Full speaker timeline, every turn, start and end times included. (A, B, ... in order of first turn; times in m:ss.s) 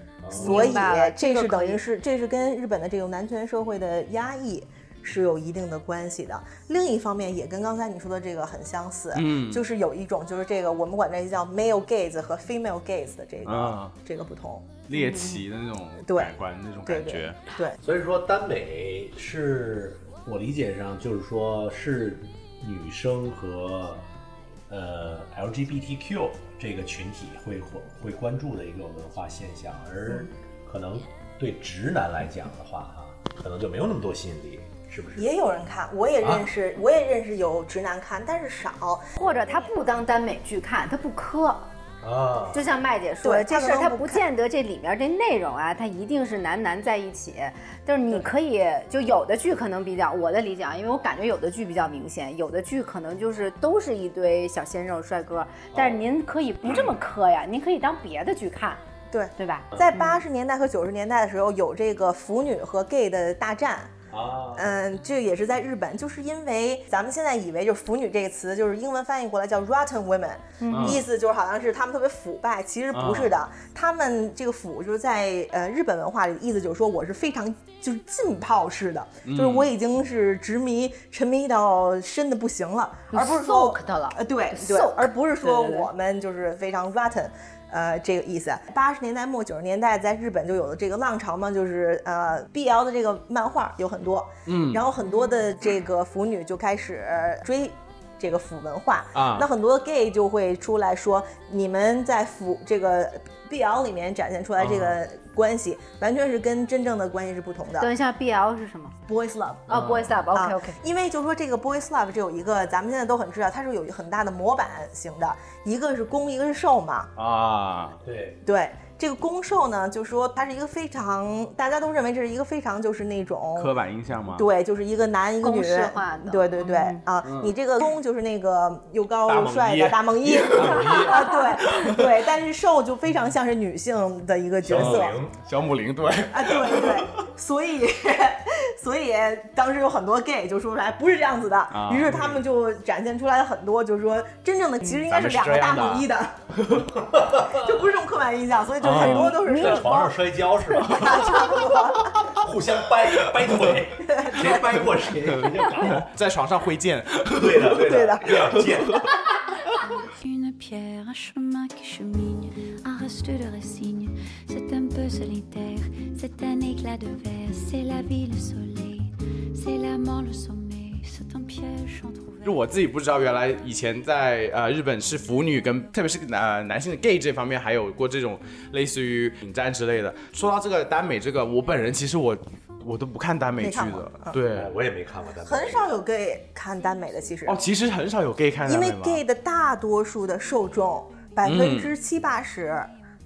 0:00.2-0:00.8 A
0:00.3-0:14.8 B
0:00.4-0:01.8 C
0:09.1-0:09.6 D
0:13.4-0:13.9 D
0:14.9-0:17.4 D
0:15.0-0:15.3 C
0:16.0-0:16.3 B
0:16.8-0:17.8 B
0:17.8-0:24.0 A
0:24.7-0:35.3 A
0:35.2-0:39.7 B
0:36.2-0:36.5 A
0:39.2-0:41.7 C
0:42.0-0:42.6 A
0:42.5-0:58.8 C
0:43.2-0:44.3 B
0:55.7-0:56.0 A
0:59.1-1:03.9 B
0:59.4-1:00.2 C
1:04.1-1:04.7 A
1:04.6-1:47.9 B
1:10.6-1:11.0 C
1:10.7-1:11.0 D
1:12.9-1:13.3 D
1:19.2-1:19.7 D
1:23.1-1:25.9 C
1:34.5-1:34.8 D
1:39.2-1:39.5 D
1:44.6-1:45.0 D
1:47.8-1:49.0 C
1:49.1-1:57.1 B
1:49.7-1:50.8 C
1:49.7-1:50.1 D
1:57.2-1:58.0 D
1:58.0-1:58.4 A
1:58.4-2:03.7 B
2:03.6-2:04.5 D
2:04.3-2:15.2 B
2:05.4-2:07.0 C
2:07.2-2:07.5 D
2:09.3-2:11.1 D
2:10.5-2:11.1 A
2:11.0-2:11.4 C
2:11.7-2:12.0 D
2:14.6-2:15.4 A
2:14.8-2:17.1 D
2:16.3-2:26.4 B
2:21.7-2:22.4 D
2:25.1-2:26.0 D
2:26.6-2:26.8 D
2:27.0-2:27.6 A
2:27.4-2:30.2 B
2:28.8-2:29.4 D
2:28.9-2:31.3 A
2:29.4-2:30.1 C
2:30.8-2:32.2 B
2:32.3-2:36.1 A
2:34.0-2:34.6 B
2:35.8-2:38.4 D
2:37.4-2:39.1 A
2:37.8-2:38.4 B
2:40.2-2:52.6 E
2:52.4-3:04.8 D
3:03.6-3:04.4 B
3:04.5-3:05.9 A
3:05.4-3:07.6 B
3:07.5-3:09.2 D
3:08.6-3:12.9 B
3:11.4-3:11.9 D